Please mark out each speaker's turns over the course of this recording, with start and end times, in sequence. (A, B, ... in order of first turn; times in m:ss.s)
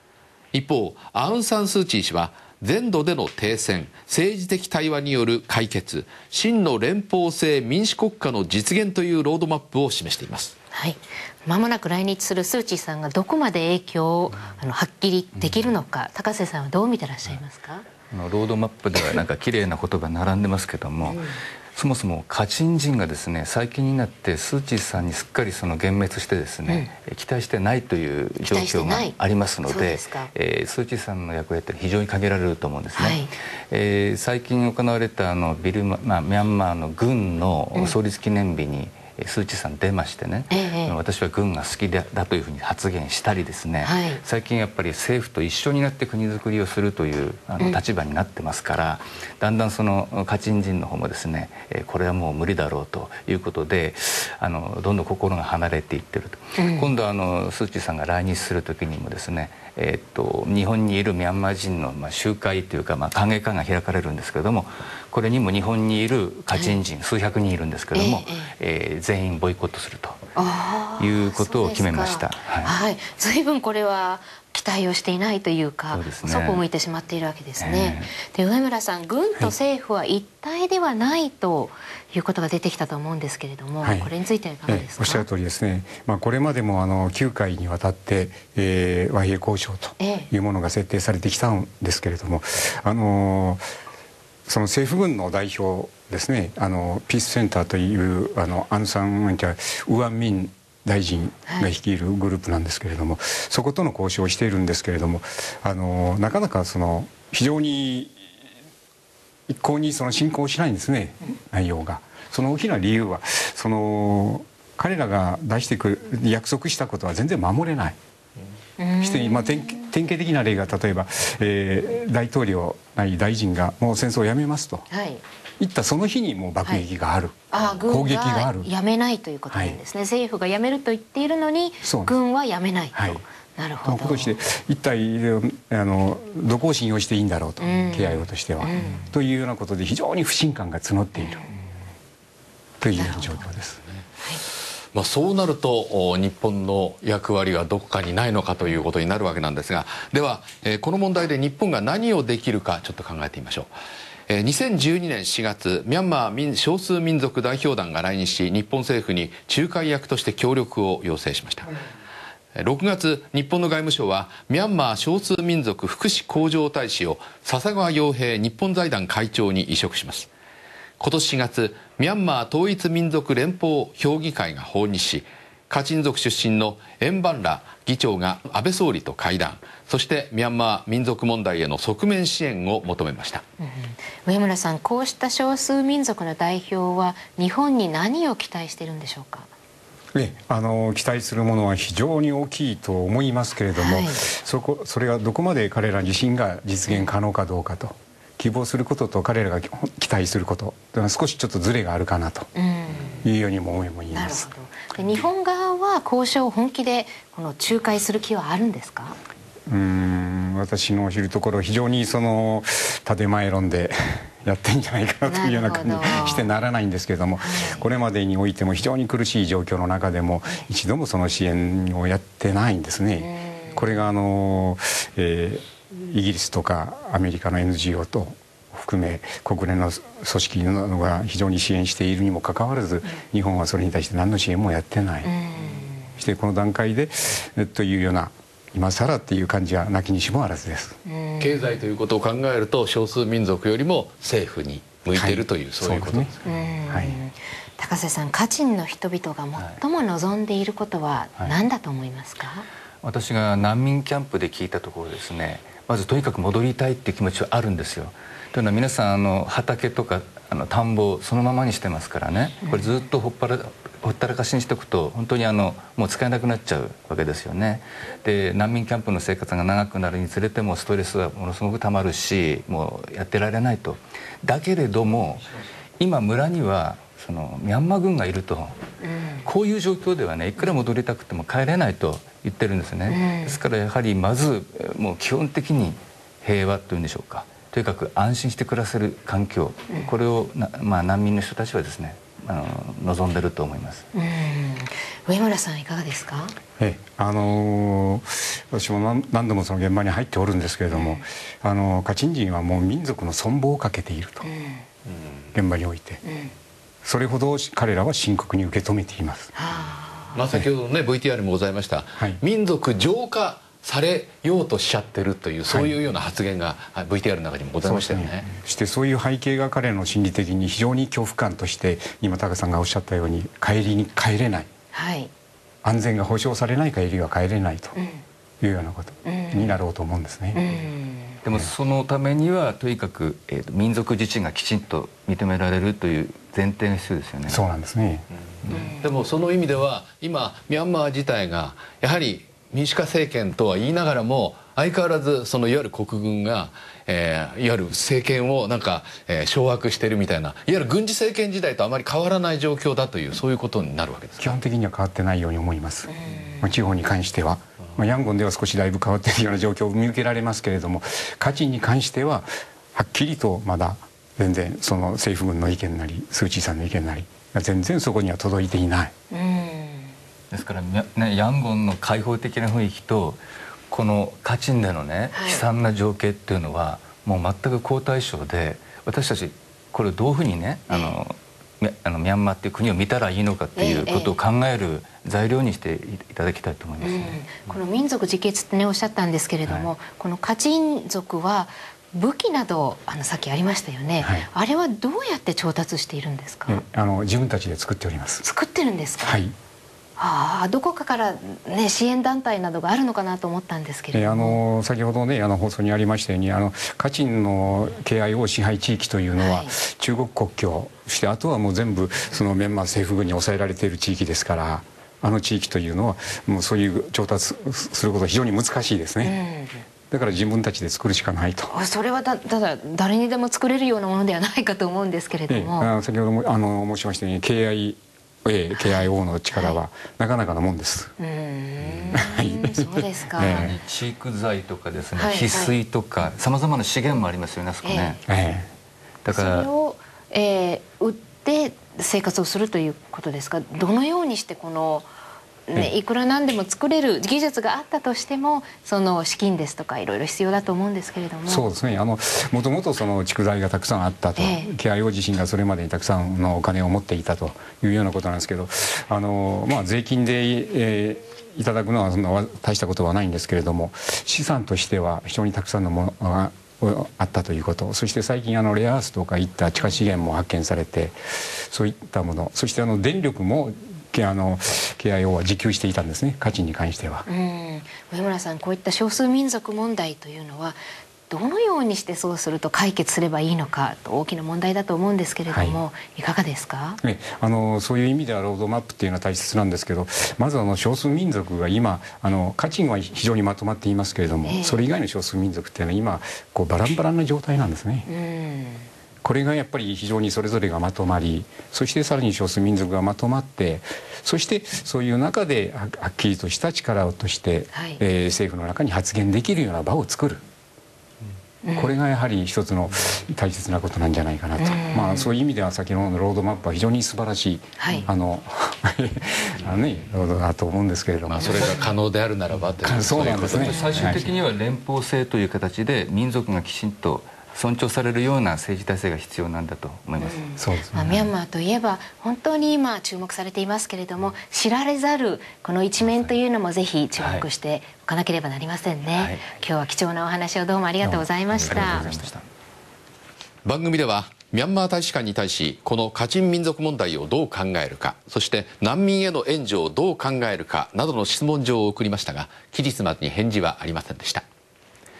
0:00.5-0:10.5 A
0:10.7-0:17.9 B
0:15.4-0:15.7 C
0:18.1-0:21.2 C
0:21.0-0:21.4 B
0:21.7-1:10.2 C
0:26.7-0:26.9 B
0:28.4-0:30.3 B
0:33.0-0:33.3 B
0:40.5-0:41.0 B
0:43.8-0:44.2 B
0:56.6-0:56.9 B
1:06.5-1:06.8 B
1:07.9-1:08.5 B
1:10.4-1:25.2 B
1:11.0-1:12.7 C
1:15.9-1:16.6 C
1:17.6-1:18.1 C
1:23.8-1:24.1 D
1:24.7-1:33.6 D
1:30.0-1:30.3 B
1:34.4-1:48.2 D
1:49.5-1:58.0 D
1:58.8-1:59.8 B
1:59.0-2:04.9 D
2:04.9-2:05.2 B
2:05.6-2:08.7 D
2:07.5-2:14.3 B
2:09.5-2:09.8 D
2:11.8-2:12.2 D
2:12.9-2:13.2 D
2:13.8-2:21.4 D
2:17.6-2:19.1 B
2:21.2-2:21.5 B
2:22.8-2:23.8 D
2:23.0-2:23.5 B
2:24.9-2:33.7 A
2:34.3-2:41.7 A
2:42.6-2:50.3 A
2:51.0-3:03.4 A
3:03.6-3:09.5 B
3:10.1-3:22.5 D
3:13.8-3:14.2 B
3:22.5-3:23.3 B
3:23.2-3:24.5 D
3:24.1-3:29.2 B
3:29.7-3:55.3 D
3:35.3-3:36.5 B
3:37.4-3:37.8 B
3:43.2-3:43.8 B
3:55.2-3:56.1 B
3:56.2-4:01.0 D
4:01.0-4:01.7 B
4:01.4-4:06.4 A
4:05.1-4:06.3 D
4:06.4-4:12.7 B
4:06.9-4:07.2 D
4:13.0-4:38.8 C
4:22.6-4:23.0 B
4:39.0-4:39.5 B
4:39.4-4:54.0 C
4:43.1-4:43.6 B
4:54.1-4:56.6 B
4:56.8-5:04.5 D
5:00.9-5:01.2 B
5:04.4-5:04.8 B
5:05.5-5:06.2 D
5:06.2-5:06.5 B
5:07.0-5:09.5 D
5:09.6-5:10.4 B
5:10.3-5:18.5 A
5:15.7-5:15.9 D
5:17.8-5:24.7 D
5:24.9-5:25.3 B
5:25.8-5:28.0 D
5:27.9-5:28.2 B
5:28.6-5:30.6 D
5:29.2-5:29.8 B
5:30.5-5:31.4 B
5:31.4-5:37.6 C
5:37.5-5:38.2 D
5:38.7-5:39.0 B
5:39.0-5:54.6 A
5:54.4-6:09.1 D
5:56.1-5:56.7 B
6:09.3-6:10.1 B
6:10.5-6:27.4 C
6:15.3-6:15.6 B
6:20.9-6:21.2 B
6:23.8-6:24.4 B
6:27.0-6:36.8 B
6:34.2-6:34.5 D
6:36.7-6:38.4 D
6:38.4-6:39.4 B
6:39.2-6:39.5 D
6:40.2-6:44.6 B
6:44.1-6:59.4 D
6:49.4-6:49.7 B
6:59.2-6:59.8 B
7:00.1-7:01.7 D
7:01.7-7:05.9 B
7:05.5-7:11.1 D
7:08.7-7:09.8 B
7:11.2-7:13.7 B
7:11.9-7:12.2 C
7:12.1-7:13.7 D
7:13.4-7:18.2 C
7:15.1-7:15.7 B
7:17.8-7:18.2 B
7:18.3-7:18.7 D
7:19.2-7:19.7 C
7:19.3-7:25.1 B
7:25.7-7:31.7 B
7:31.4-7:57.3 D
7:34.4-7:34.7 B
7:57.3-8:07.0 B
8:05.5-8:05.8 D
8:07.0-8:18.1 D
8:14.4-8:14.8 B
8:18.1-8:18.9 B
8:19.2-8:30.4 D
8:27.7-8:28.0 B
8:31.6-8:31.9 B
8:31.8-8:41.8 D
8:34.6-8:35.3 B
8:37.8-8:38.0 B
8:41.2-8:44.2 A
8:41.5-8:41.9 C
8:42.8-8:44.2 D
8:43.3-8:51.3 C
8:43.7-8:44.0 B
8:50.2-9:02.3 B
8:50.6-8:50.9 D
8:56.0-8:56.3 C
8:57.2-8:57.5 C
8:59.1-8:59.6 C
9:01.0-9:02.5 C
9:03.6-9:14.4 A